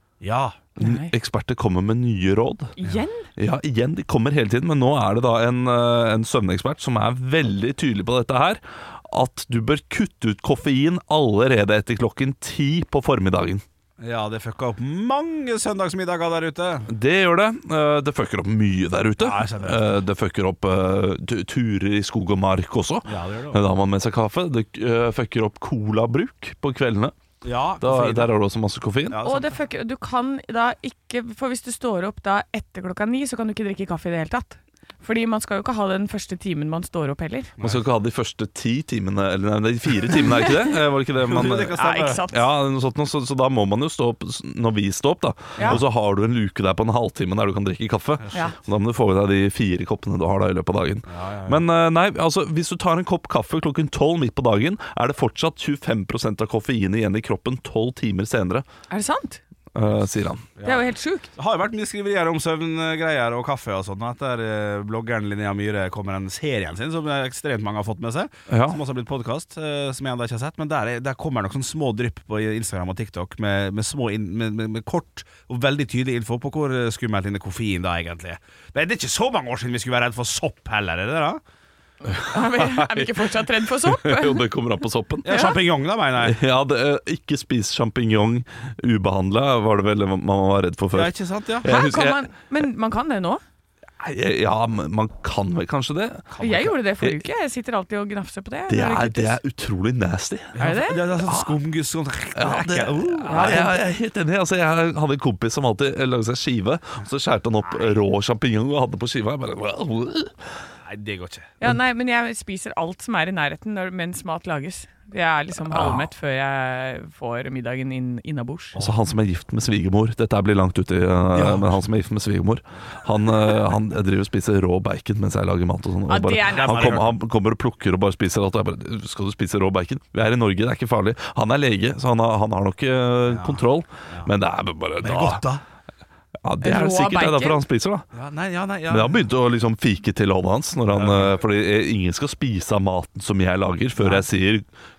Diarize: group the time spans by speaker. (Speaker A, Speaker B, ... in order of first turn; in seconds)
Speaker A: 0.2-0.6, 14.0-16.9, 19.2-20.0, 23.1-23.6, 27.4-28.3, 29.1-29.6, 41.2-42.2, 48.2-48.5, 51.1-51.6, 60.6-81.4, 85.2-86.4, 90.9-91.7, 96.3-96.7, 100.5-103.8, 107.7-108.0, 110.8-111.5, 118.8-119.1, 121.3-121.7, 126.5-127.2, 133.3-134.3, 135.0-135.6, 138.1-139.3, 140.9-141.4, 144.0-144.3
Speaker B: 0.8-1.1, 2.8-3.3, 29.2-37.5, 41.8-42.4, 58.9-59.4, 60.6-61.3, 82.0-84.5, 85.3-85.6, 91.7-93.4, 96.4-99.4, 100.6-101.1, 103.3-103.8, 111.6-118.8, 126.1-127.0, 136.6-137.6
Speaker C: 0.8-2.8, 3.4-13.6, 16.9-27.1, 27.8-29.2, 37.6-41.8, 42.3-58.7, 59.8-60.5, 68.5-68.8, 82.1-85.5, 86.2-92.3, 94.0-97.2, 98.7-100.6, 101.2-101.5, 102.3-110.3, 115.7-116.1, 118.8-135.5, 136.4-138.1, 138.9-144.7